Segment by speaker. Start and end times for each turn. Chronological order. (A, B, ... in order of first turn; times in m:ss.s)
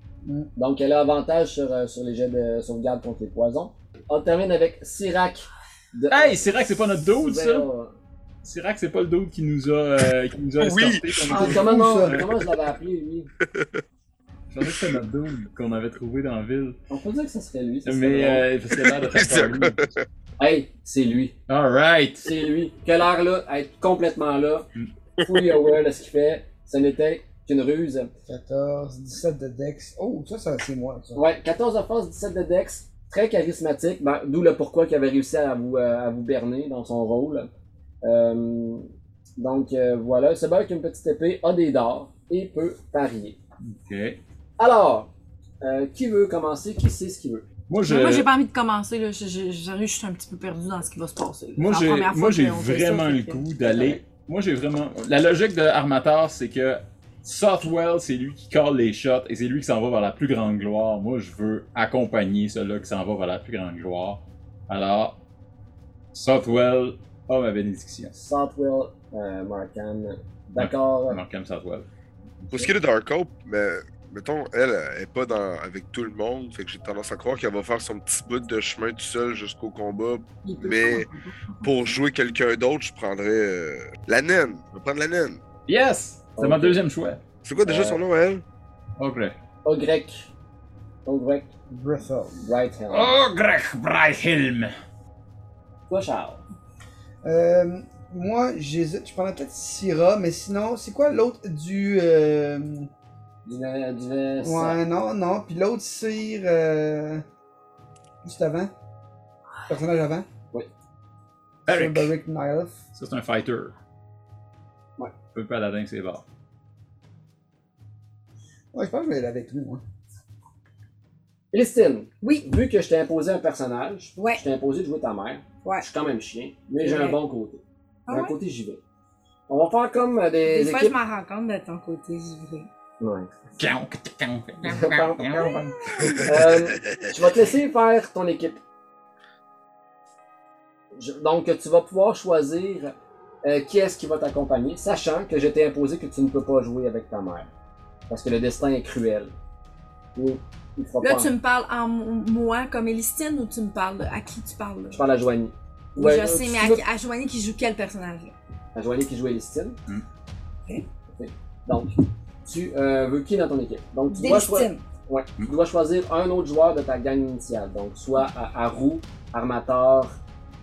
0:00.6-0:08.0 A
0:06.1-0:07.7 B
0:08.4-0:12.4 B
0:10.6-0:11.5 C
0:11.3-0:13.3 A
0:11.3-0:12.2 D
0:14.5-0:16.8 B
0:16.9-0:18.5 A
0:17.8-0:19.9 B
0:18.9-0:19.9 C
0:20.4-0:21.4 A
0:21.5-0:22.4 B
0:22.2-0:24.7 A
0:25.2-0:28.1 A
0:28.3-0:31.2 D
0:31.2-0:37.5 A
0:38.0-0:38.9 A
0:39.4-0:43.4 A
0:43.6-0:44.2 B
0:44.6-0:45.1 A
0:45.6-0:47.5 A
0:47.7-0:48.3 B
0:47.8-0:54.0 E
0:51.6-1:05.2 B
1:06.1-1:08.1 B
1:08.1-1:11.2 A
1:10.6-1:11.9 B
1:12.5-1:21.1 C
1:20.4-1:21.7 E
1:21.6-1:25.4 C
1:25.7-1:27.2 B
1:26.4-1:26.8 A
1:27.4-1:28.4 C
1:27.6-1:28.0 A
1:29.0-1:29.4 B
1:29.6-1:30.3 A
1:31.1-1:31.5 A
1:31.7-1:32.4 D
1:32.4-1:33.2 A
1:32.9-1:34.7 B
1:35.9-1:36.4 A
1:37.2-1:42.9 D
1:43.4-1:44.8 A
1:44.4-1:47.2 D
1:48.2-1:48.7 D
1:49.7-1:50.3 D
1:51.7-1:52.1 B
1:51.7-1:52.8 D
1:53.0-1:53.8 B
1:55.3-1:56.2 B
1:58.7-1:59.8 D
2:01.5-2:08.8 A
2:02.2-2:02.5 E
2:04.2-2:04.4 E
2:06.8-2:07.2 E
2:08.1-2:08.4 E
2:09.5-2:11.0 A
2:10.4-2:12.7 E
2:13.0-2:13.3 A
2:13.6-2:16.3 B
2:14.6-2:15.6 A
2:15.3-2:16.2 E
2:16.2-2:18.6 A
2:20.9-2:27.5 A
2:28.1-2:29.3 A
2:30.2-2:31.3 A
2:31.0-2:35.0 E
2:34.9-2:36.8 A
2:36.0-2:38.4 E
2:38.8-2:39.8 A
2:41.1-2:50.2 A
2:44.1-2:44.8 E